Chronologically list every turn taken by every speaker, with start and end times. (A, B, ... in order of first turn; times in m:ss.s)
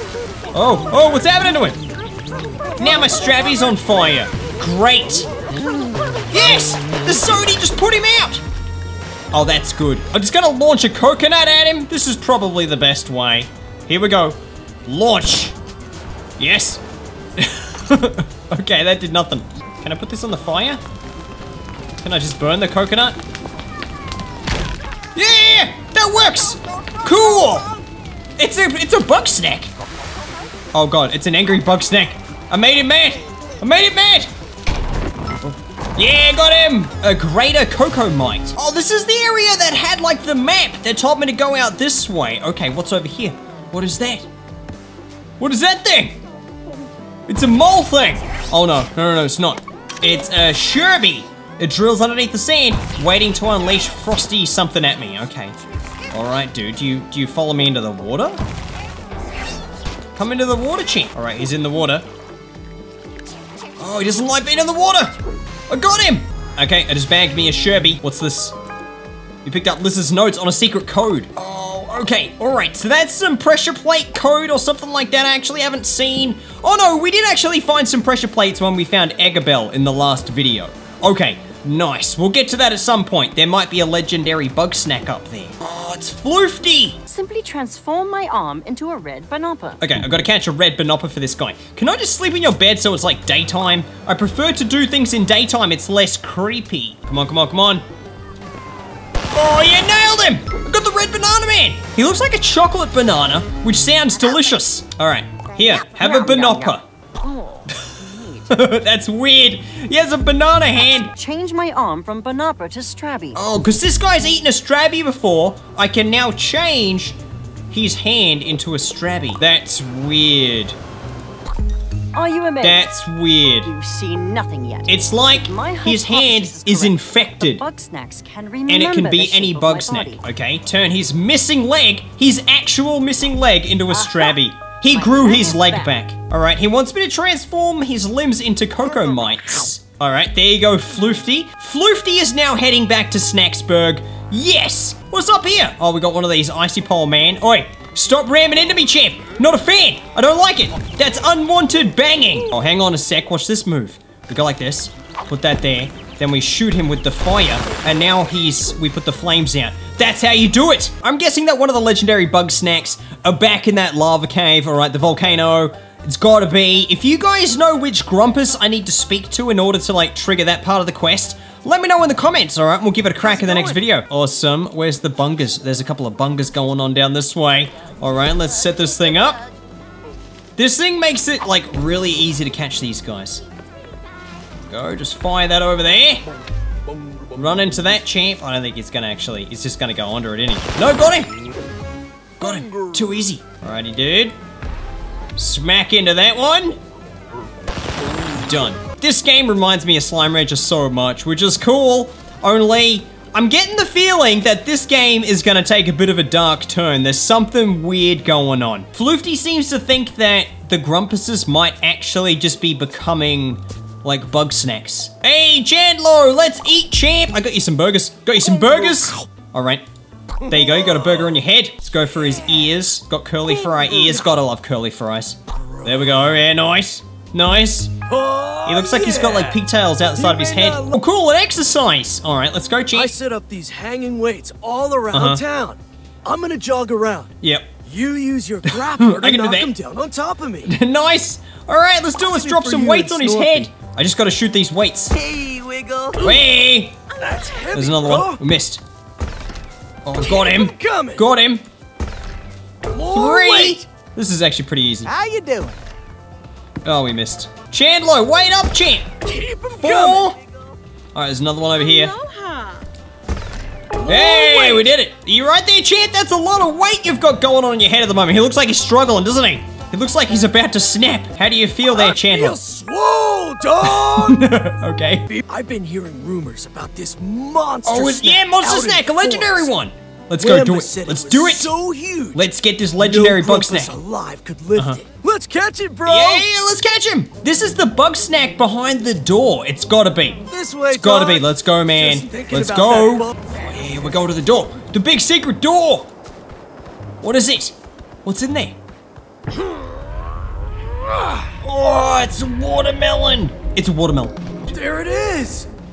0:00.5-0:01.8 A
0:02.8-0:05.3 A
0:06.3-0:08.4 A
0:09.3-0:15.6 A
0:16.4-0:16.8 A
0:17.4-0:20.8 A
0:22.0-0:23.2 A
0:25.2-0:27.7 A
0:28.4-0:29.7 A
0:30.7-0:34.3 A
0:35.4-0:44.3 A
0:45.4-0:46.2 A
0:47.3-0:55.5 A
0:56.1-0:58.4 A
1:00.2-1:02.1 A
1:03.8-1:05.1 A
1:05.7-1:08.6 A
1:09.4-1:27.0 A
1:27.1-1:29.8 B
1:29.8-1:37.8 A
1:39.3-1:46.8 A
1:45.6-1:48.5 B
1:48.5-1:51.1 A
1:51.0-1:53.4 B
1:53.4-1:57.2 A
1:57.7-2:00.8 A
2:02.1-2:02.9 B
2:02.6-2:03.7 A
2:03.6-2:10.2 B
2:04.9-2:07.6 A
2:08.7-2:59.4 A
2:13.9-2:14.4 B
2:14.9-2:15.9 B
2:53.2-2:53.8 C
3:00.6-3:03.4 A
3:04.7-3:06.2 A
3:07.3-3:11.3 A
3:12.4-3:14.4 A
3:15.4-3:16.8 A
3:18.2-3:39.8 A
3:40.5-3:47.9 A
3:43.8-3:44.2 C
3:48.1-3:49.6 C
3:48.7-3:53.1 A
3:50.2-3:51.0 C
3:52.9-3:57.3 C
3:55.1-3:55.4 A
3:57.4-3:57.7 A
3:57.8-4:00.7 C
3:58.7-3:59.7 A
4:00.7-4:05.3 A
4:02.2-4:03.7 C
4:05.2-4:06.4 C
4:05.5-4:05.9 B
4:06.2-4:07.0 A
4:07.1-4:08.4 C
4:07.7-4:08.8 A
4:10.0-4:11.6 A
4:10.2-4:11.3 C
4:12.9-4:13.8 C
4:13.1-4:15.1 A
4:15.2-4:15.8 C
4:15.2-4:15.7 B
4:16.8-4:19.1 A
4:19.2-4:20.4 C
4:19.8-4:20.4 A
4:21.1-4:22.2 A
4:21.8-4:22.8 B
4:24.0-4:32.6 A
4:24.0-4:24.6 C
4:31.9-4:34.4 C
4:33.8-4:35.4 A
4:35.4-4:39.7 C
4:37.9-4:41.7 A
4:40.4-4:42.4 C
4:42.3-4:43.9 A
4:43.0-4:46.5 C
4:44.8-4:45.0 A
4:46.1-4:56.1 A
4:50.5-4:53.6 C
4:57.2-4:58.8 A
5:01.5-5:04.4 A
5:04.7-5:05.7 C